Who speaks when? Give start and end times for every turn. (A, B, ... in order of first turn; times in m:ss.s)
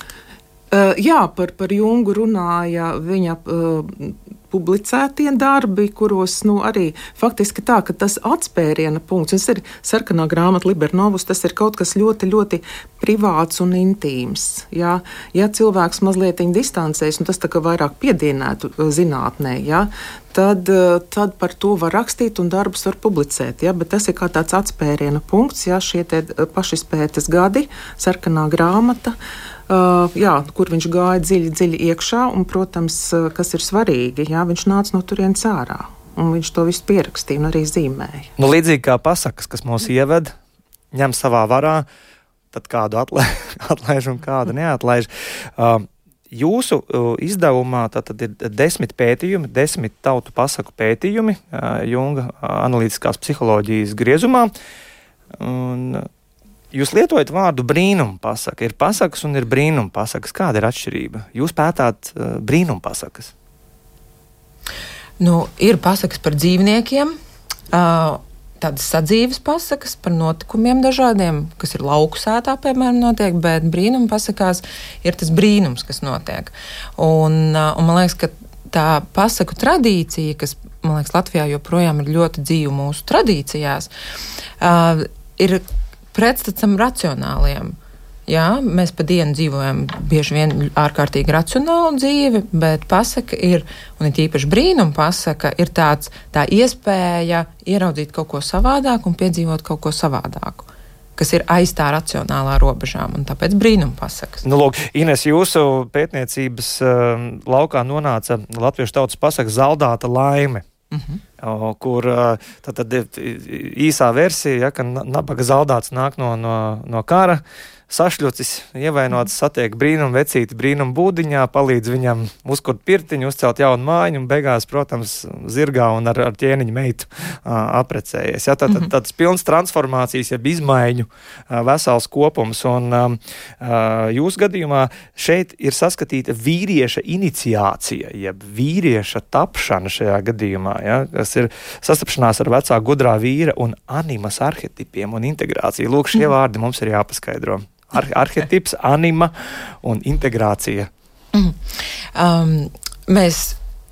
0:00.7-0:29.2 A
0:29.7-0:38.3 A
0:38.4-0:40.3 B
0:40.9-0:41.9 B
0:42.5-0:54.5 B
0:55.4-0:56.1 B
0:56.7-1:03.3 B
1:05.2-1:07.2 C
1:07.7-1:23.9 C
1:24.6-1:27.8 C
1:28.3-1:44.4 C
1:44.4-1:50.6 B
1:50.9-1:51.2 C
1:51.4-2:30.9 B
2:32.2-2:33.6 C